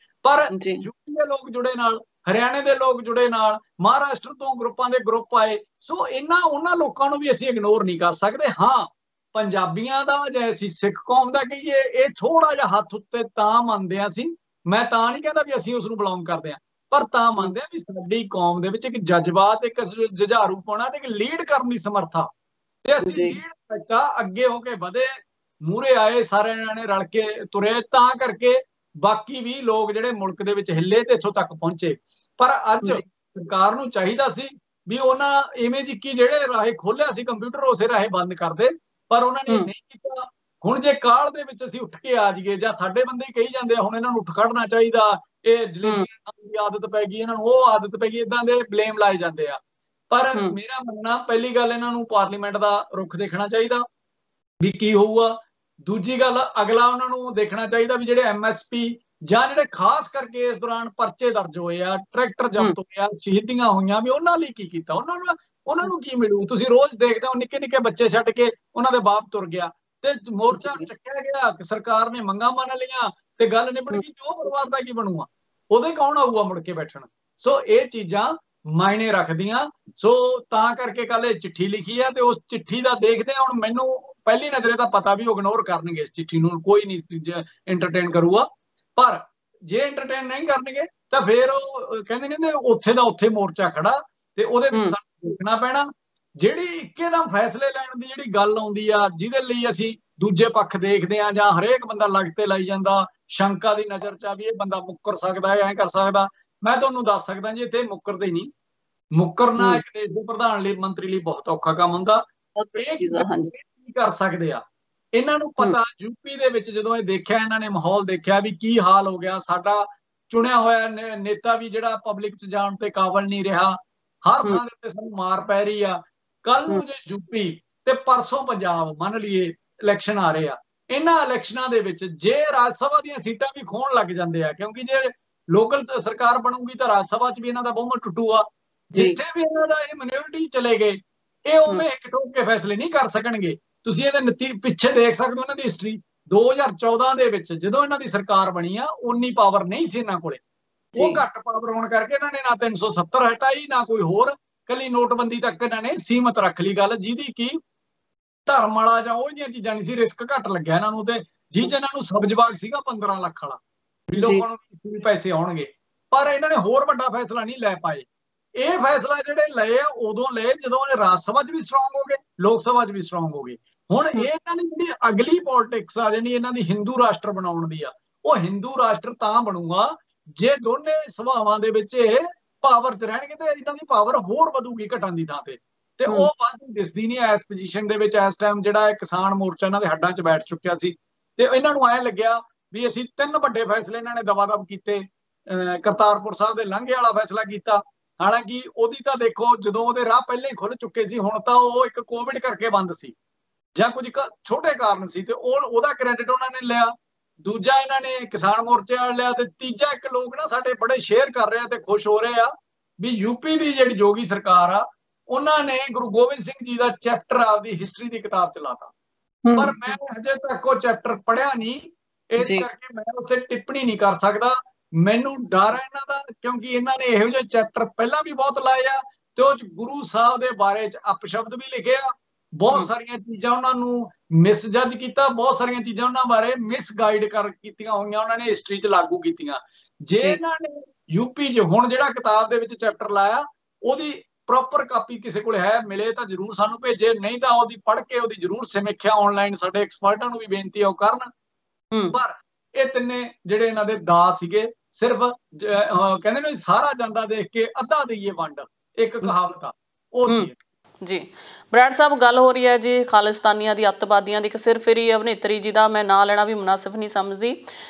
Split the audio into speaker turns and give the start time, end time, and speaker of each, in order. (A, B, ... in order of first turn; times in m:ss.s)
0:00.2-0:22.3 A
0:00.5-0:00.9 B
0:22.8-0:25.1 A
0:23.0-0:23.4 B
0:25.6-0:53.8 A
0:45.8-0:46.1 B
0:54.6-1:28.4 A
1:10.5-1:10.9 B
1:29.0-1:35.9 A
1:34.7-1:35.0 B
1:36.4-1:48.5 A
1:49.1-1:52.2 A
1:52.6-1:53.5 B
1:52.8-1:54.6 A
1:55.1-2:30.4 A
2:31.0-2:31.2 B
2:31.0-2:37.6 A
2:38.5-2:48.1 A
2:44.2-2:44.4 B
2:48.6-3:23.2 A
3:23.8-3:38.9 A
3:39.4-3:39.9 B
3:39.6-4:11.3 A
3:42.4-3:42.7 B
4:12.1-4:20.6 A
4:21.0-4:27.6 B